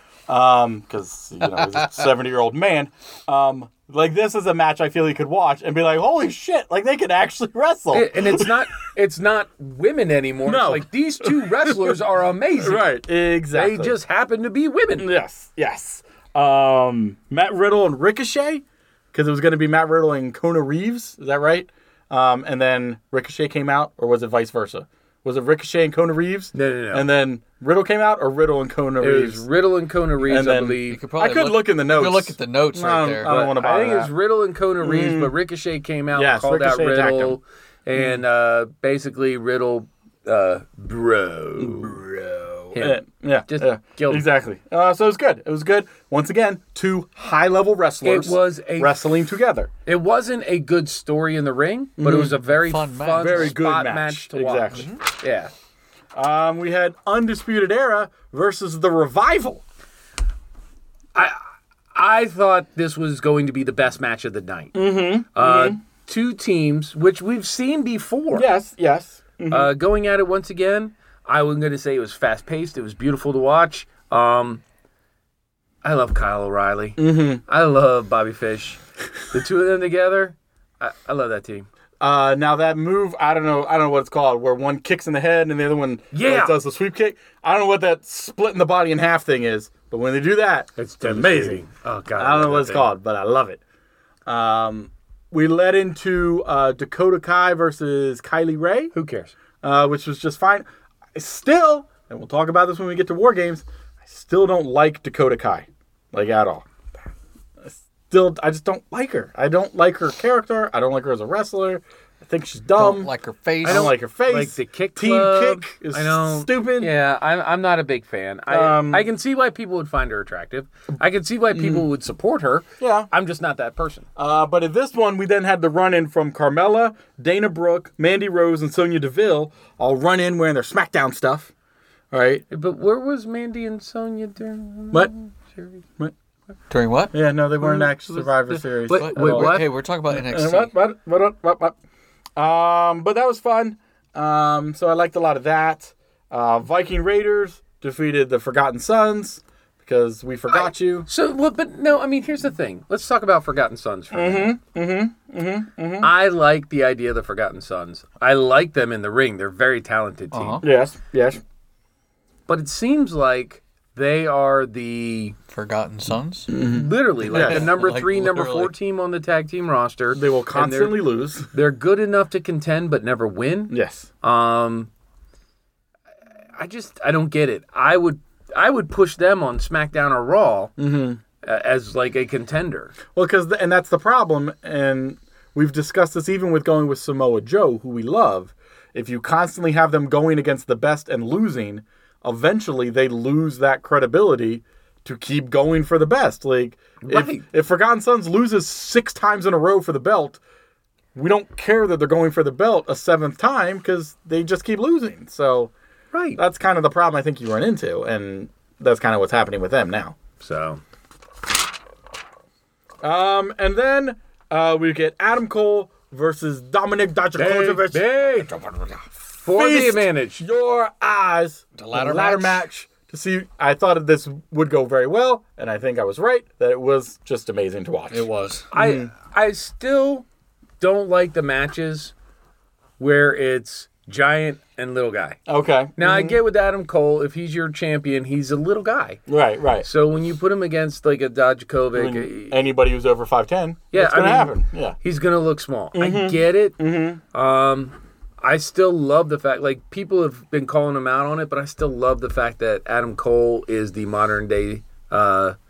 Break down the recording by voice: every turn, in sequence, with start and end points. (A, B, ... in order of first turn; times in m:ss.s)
0:00.3-0:08.5 A
0:07.9-0:12.9 B
0:10.4-0:12.0 A
0:12.6-0:13.9 A
0:13.5-0:15.1 B
0:15.0-0:29.4 A
0:26.5-0:27.1 B
0:29.0-0:31.0 B
0:30.2-0:34.1 A
0:30.9-0:33.3 C
0:33.2-0:42.0 B
0:34.8-0:35.3 A
0:36.1-0:37.4 A
0:38.0-0:38.2 A
0:41.6-0:49.7 A
0:42.6-0:44.2 B
0:48.0-0:49.0 B
0:49.8-0:55.5 B
0:52.0-0:52.3 A
0:52.5-0:53.5 C
0:53.2-0:54.9 A
0:56.1-0:59.6 A
1:01.1-1:01.4 B
1:01.9-1:04.8 B
1:04.7-1:05.8 A
1:05.3-1:08.5 B
1:08.3-1:09.7 A
1:09.5-1:14.6 B
1:15.8-1:21.7 B
1:17.0-1:17.4 A
1:22.0-1:31.6 A
1:26.1-1:26.6 B
1:30.8-1:32.9 B
1:32.2-1:33.6 A
1:34.2-1:38.9 A
1:38.9-1:39.3 B
1:39.6-1:46.6 A
1:47.6-1:53.1 A
1:52.8-1:53.9 C
1:53.6-1:56.9 A
1:53.6-2:04.0 B
1:58.5-1:59.1 A
2:01.5-2:01.8 A
2:02.8-2:03.1 A
2:04.2-2:11.5 A
2:12.1-2:12.4 A
2:12.5-2:15.8 B
2:16.7-2:17.1 C
2:17.1-2:21.8 A
2:17.6-2:19.7 B
2:18.9-2:20.7 C
2:22.4-2:31.1 A
2:30.5-2:34.5 B
2:34.1-2:36.1 A
2:36.0-2:40.6 B
2:40.3-2:40.6 C
2:40.6-2:41.4 A
2:42.5-2:45.4 B
2:45.5-2:46.5 C
2:46.5-2:47.7 A
2:46.6-2:51.0 B
2:47.2-2:48.7 C
2:50.1-2:51.5 A
2:51.5-2:54.9 B
2:53.7-2:54.1 A
2:56.6-3:00.7 B
3:00.8-3:01.2 A
3:01.4-3:02.9 B
3:03.1-3:20.4 A
3:17.0-3:17.4 B
3:21.1-3:25.7 A
3:26.1-3:26.4 B
3:26.4-3:30.2 A
3:30.4-3:30.8 B
3:33.0-3:49.1 A
3:37.4-3:38.5 B
3:39.4-3:40.4 B
3:41.7-3:42.6 C
3:48.1-3:48.7 C
3:48.7-3:50.2 B
3:50.8-3:52.1 B
3:53.0-3:55.4 B
3:55.5-3:56.4 A
3:56.0-3:59.2 B
3:59.3-3:59.8 A
3:59.8-4:02.5 B
4:01.9-4:05.0 A
4:03.9-4:06.8 B
4:05.9-4:07.2 A
4:07.3-4:15.6 B